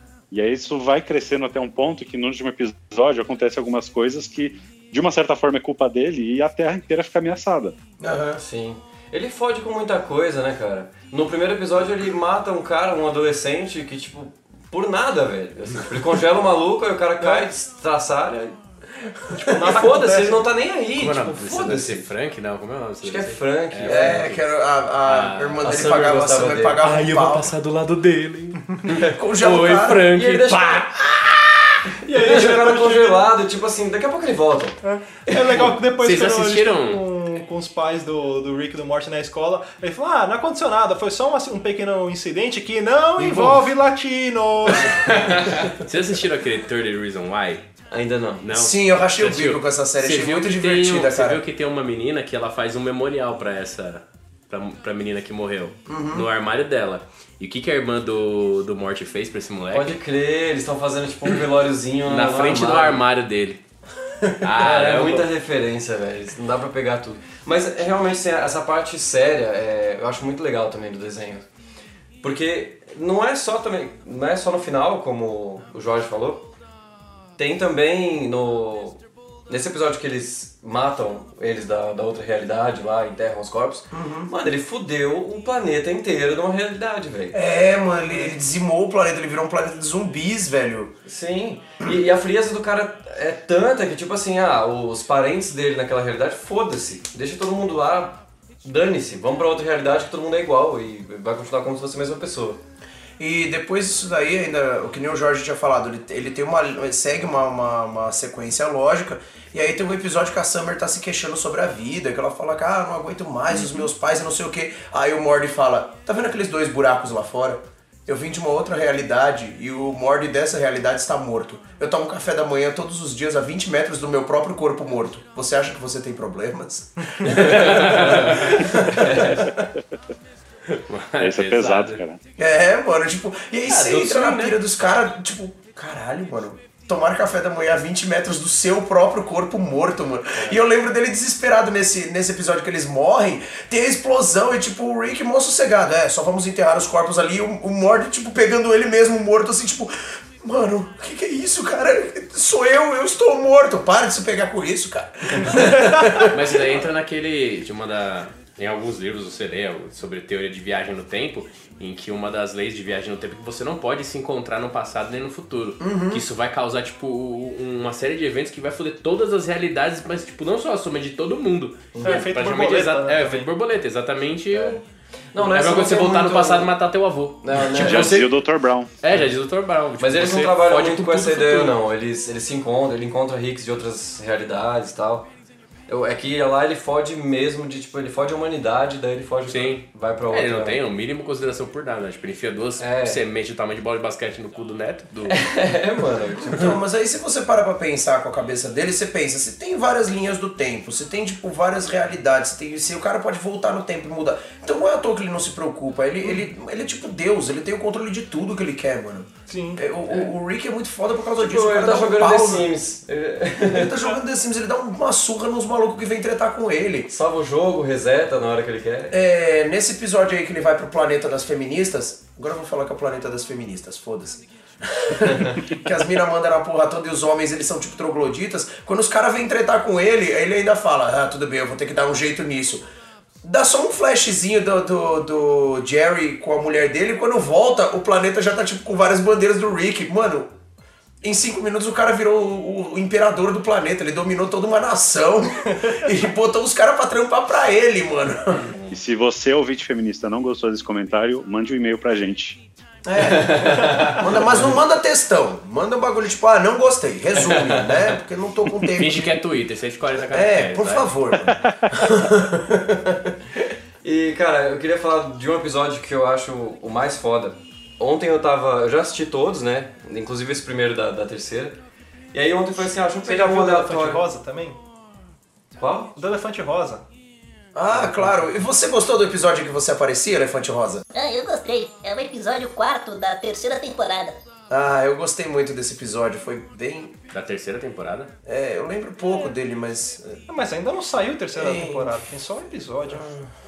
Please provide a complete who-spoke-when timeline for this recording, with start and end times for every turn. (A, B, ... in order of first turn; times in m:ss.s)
0:00.3-0:07.8 A
0:08.0-0:08.4 B
0:08.4-0:18.6 C
0:17.2-0:17.5 D
0:19.4-0:20.5 D
0:19.6-0:22.1 C
0:21.0-0:24.5 E
0:23.0-0:24.2 C
0:23.9-0:27.5 B
0:25.0-0:25.9 E
0:25.6-0:26.8 C
0:26.8-0:31.2 E
0:29.0-0:30.1 B
0:30.1-0:30.8 C
0:32.0-0:33.2 D
0:32.2-0:35.6 C
0:34.8-0:45.3 D
0:35.5-0:37.0 E
0:43.2-0:43.6 E
0:44.8-0:47.7 E
0:47.9-0:48.4 C
0:48.4-1:00.0 E
0:48.5-0:51.4 B
0:55.9-0:56.3 B
0:59.7-1:03.0 C
1:02.1-1:03.6 E
1:04.4-1:05.3 E
1:04.6-1:11.5 C
1:12.2-1:16.5 C
1:17.4-1:27.4 C
1:23.9-1:24.3 B
1:27.3-1:31.0 B
1:31.1-1:42.6 C
1:43.2-2:09.5 B
2:07.3-2:09.4 E
2:10.7-2:12.0 E
2:11.2-2:12.2 A
2:12.4-2:36.4 B
2:13.7-2:14.6 E
2:36.3-2:54.8 E
2:45.8-2:46.2 B
2:52.0-2:52.3 C
2:52.0-2:53.5 D
2:54.5-2:54.8 C
2:55.3-2:56.7 C
2:55.4-2:58.5 E
2:57.4-2:58.2 C
2:57.8-2:58.9 A
2:59.0-3:01.8 E
3:00.0-3:05.3 C
3:05.9-3:10.8 C
3:09.5-3:15.5 E
3:12.8-3:13.2 C
3:15.3-3:16.6 C
3:16.4-3:32.7 B
3:29.5-3:29.8 D
3:31.4-3:33.9 C
3:33.6-3:37.1 B
3:37.1-3:39.2 C
3:39.1-3:52.8 B
3:53.4-4:00.5 B
4:01.2-4:08.7 B
4:08.9-4:12.6 A
4:13.1-4:19.4 B
4:13.2-4:14.2 C
4:17.5-4:18.0 C
4:18.9-4:21.1 E
4:20.3-4:23.4 B
4:24.0-4:31.8 C
4:32.3-4:34.2 C
4:33.2-4:34.8 D
4:35.8-4:36.1 C
4:36.2-4:37.1 D
4:37.8-4:41.0 B
4:41.1-4:44.4 F
4:44.7-4:47.2 B
4:47.3-4:48.3 E
4:48.5-4:50.4 B
4:50.5-4:53.3 D
4:51.5-4:52.2 B
4:53.1-4:53.5 B